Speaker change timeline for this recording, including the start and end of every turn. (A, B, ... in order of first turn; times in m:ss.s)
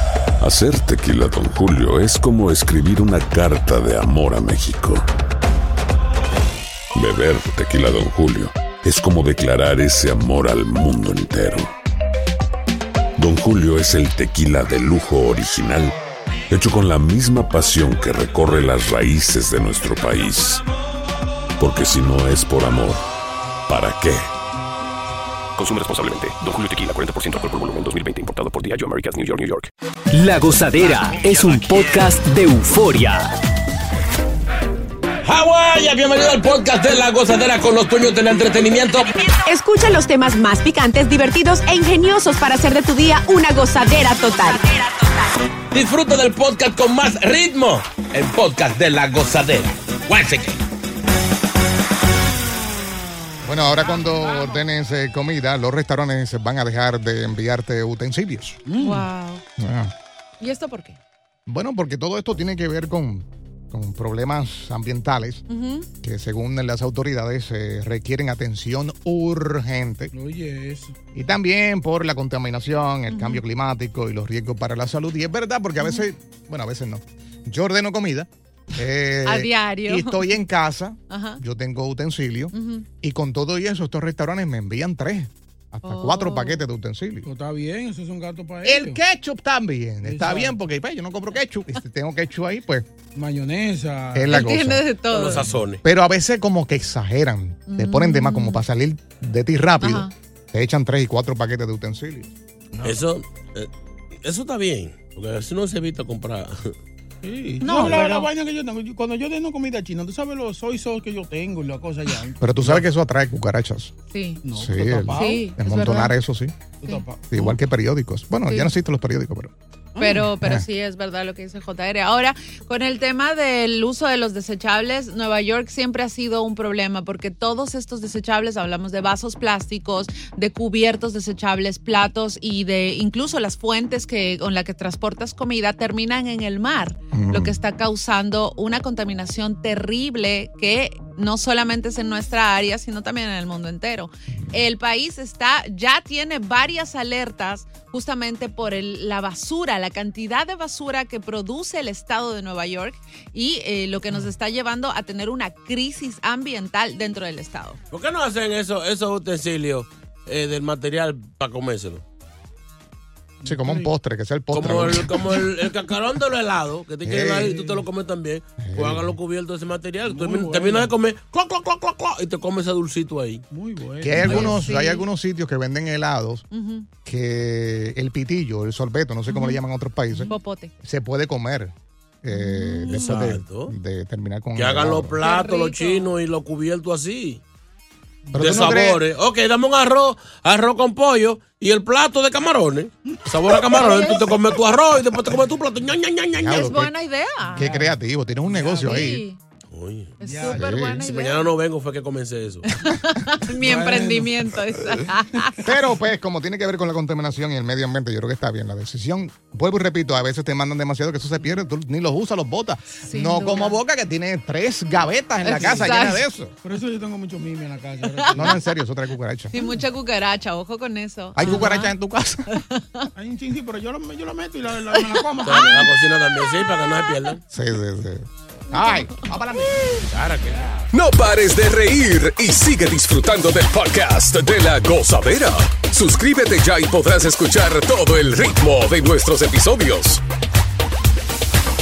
0:00.4-0:05.0 A
0:06.9-0:11.7 A
0:13.2-0:15.9 A
0:16.5-0:20.6 A
0:21.6-0:23.0 A
0:23.7-0:24.2 A
0:25.7-0:29.6 B
0:30.1-0:33.3 C
0:35.2-0:39.2 D
0:39.4-0:44.7 E
0:45.7-0:50.6 D
0:53.4-0:58.6 F
0:53.8-0:54.6 G
0:58.7-0:59.1 H
0:58.7-0:59.4 G
0:59.6-0:59.9 F
1:00.4-1:01.0 G
1:01.5-1:05.4 F
1:05.5-1:05.9 G
1:06.0-1:10.1 F
1:10.1-1:11.0 H
1:11.1-1:27.3 F
1:13.1-1:13.4 G
1:15.8-1:16.0 G
1:19.2-1:20.4 G
1:21.1-1:21.4 G
1:22.5-1:22.9 G
1:25.8-1:26.6 G
1:27.2-1:29.0 H
1:28.6-1:32.9 F
1:30.0-1:30.6 H
1:33.1-1:34.5 H
1:34.1-1:34.8 F
1:34.3-1:35.5 G
1:35.1-1:35.8 D
1:35.8-1:42.3 F
1:37.7-1:38.6 G
1:39.8-1:40.1 G
1:42.8-1:43.7 D
1:44.2-1:46.8 D
1:47.2-1:52.8 H
1:47.6-1:48.3 G
1:52.4-1:53.9 F
1:54.1-1:54.4 G
1:54.4-1:55.5 H
1:54.5-1:56.5 F
1:55.1-1:56.1 G
1:56.8-1:57.5 H
1:57.3-1:59.5 F
1:58.4-1:58.7 G
2:00.0-2:00.2 H
2:00.0-2:37.8 G
2:00.1-2:00.6 F
2:17.1-2:17.6 F
2:37.9-2:42.0 D
2:43.4-2:43.9 H
2:43.4-2:45.4 F
2:44.5-2:53.4 D
2:47.0-2:47.6 F
2:47.5-2:47.8 H
2:48.6-2:49.2 F
2:50.1-2:50.9 H
2:53.5-2:54.6 H
2:54.0-2:56.4 F
2:54.2-2:55.0 G
2:56.5-2:56.9 G
2:57.0-3:05.1 F
2:59.3-2:59.6 G
3:00.2-3:00.7 G
3:02.3-3:03.0 G
3:02.9-3:03.7 D
3:04.6-3:07.4 D
3:05.2-3:06.1 G
3:08.3-3:08.7 H
3:08.3-3:09.0 F
3:08.4-3:16.7 D
3:13.8-3:14.2 G
3:13.8-3:14.1 H
3:16.3-3:16.9 F
3:16.5-3:17.7 G
3:17.5-3:19.2 H
3:17.6-3:19.2 F
3:18.8-3:19.4 G
3:19.7-3:20.2 D
3:20.2-3:21.5 G
3:20.2-3:20.8 H
3:20.5-3:21.0 F
3:21.0-3:22.7 D
3:22.6-3:25.6 G
3:23.6-3:25.0 H
3:25.6-3:36.5 F
3:33.0-3:33.8 G
3:35.4-3:36.2 G
3:35.6-3:35.9 H
3:36.6-3:38.6 H
3:38.1-3:38.4 G
3:38.3-3:39.5 F
3:39.5-3:41.9 G
3:41.4-3:42.5 F
3:42.5-3:43.1 G
3:43.2-3:45.9 H
3:44.9-3:45.8 G
3:45.4-3:47.4 D
3:47.5-3:50.0 F
3:48.7-3:49.3 G
3:50.1-3:50.9 D
3:50.9-4:00.2 I